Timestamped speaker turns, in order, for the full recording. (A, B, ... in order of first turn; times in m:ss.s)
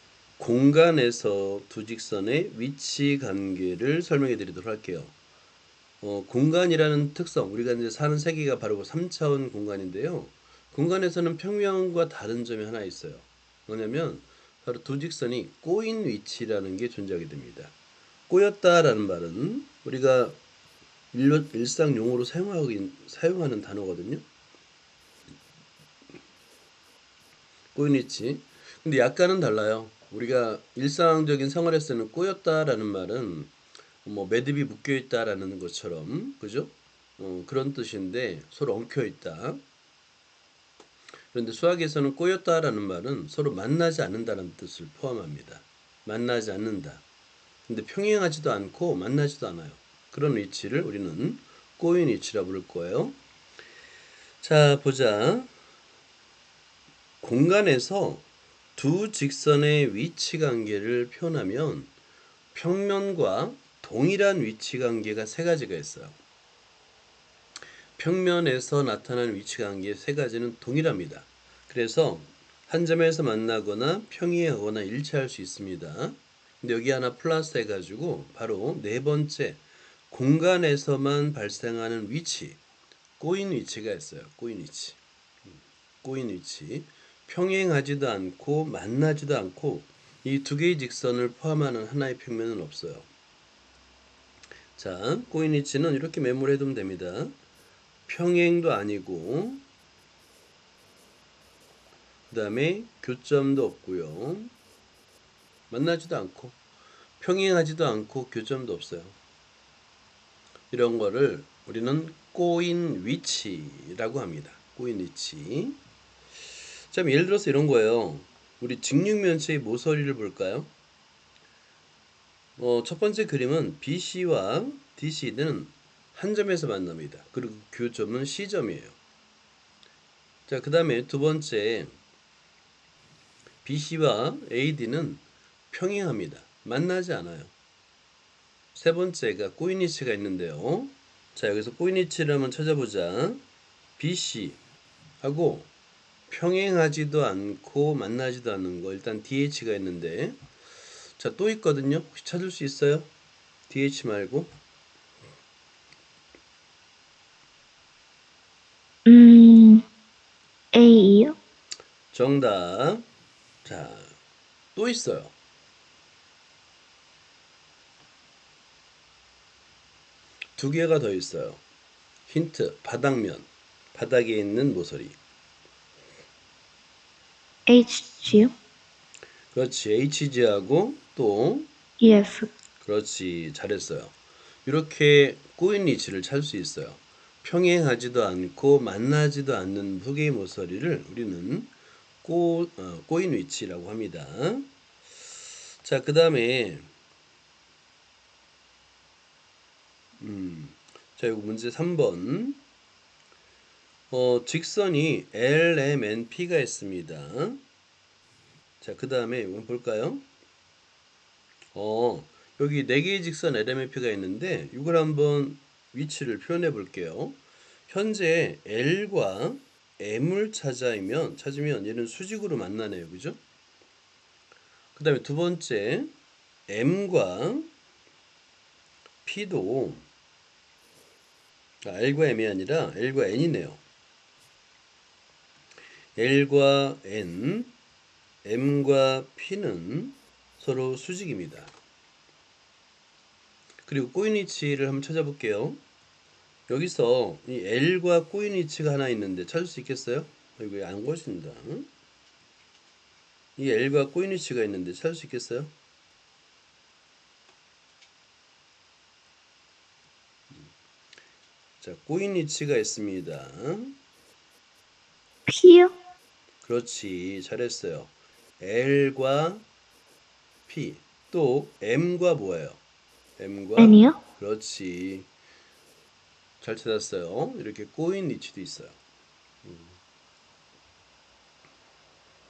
0:00.4-0:05.1 A
0:06.0-0:17.7 A
0:18.3-0:20.4 A
0:21.1-0:24.2 A
0:27.7-0:33.5 A
0:34.0-0:39.6 A
0:41.3-0:47.0 A
0:47.7-0:53.2 A
0:54.4-0:55.5 A
0:57.2-1:01.9 A
1:02.5-1:06.2 A
1:08.0-1:22.6 A
1:23.2-1:25.0 A
1:26.0-1:33.1 A
1:34.8-1:37.4 A
1:38.0-1:39.6 A
1:42.3-1:44.5 A
1:45.7-1:46.6 A
1:47.2-1:49.2 A
1:50.7-1:55.8 A
1:56.9-2:00.7 A
2:02.6-2:09.0 A
2:10.5-2:11.9 A
2:13.6-2:17.5 A
2:18.7-2:23.4 A
2:24.0-2:24.6 A
2:25.2-2:25.7 A
2:26.3-2:30.4 A
2:31.2-2:33.1 A
2:33.7-2:34.5 A
2:39.0-2:39.9 B
2:40.7-2:41.4 B
2:42.1-2:43.0 A
2:43.6-2:44.1 A
2:44.7-2:45.3 A
2:50.6-2:51.6 A
2:52.3-2:55.2 A
2:57.7-2:58.5 B
2:59.5-3:01.7 A
3:02.0-3:02.5 B
3:02.8-3:04.1 A
3:04.6-3:14.7 A
3:15.8-3:16.9 A
3:20.2-3:22.6 A
3:24.1-3:27.6 A
3:28.8-3:30.2 A
3:31.7-3:43.4 A
3:44.9-3:46.1 A
3:46.7-3:47.7 A
3:49.2-3:50.0 A
3:51.8-3:53.8 A
3:56.2-3:57.8 A
3:58.4-4:01.7 A
4:03.8-4:05.8 A
4:06.7-4:11.9 A
4:13.6-4:15.7 A
4:21.8-4:23.9 A
4:25.5-4:25.9 B
4:26.6-4:29.6 A
4:30.7-4:32.8 A
4:33.4-4:35.3 A
4:33.8-4:34.2 B
4:36.6-4:39.0 A
4:39.6-4:40.0 A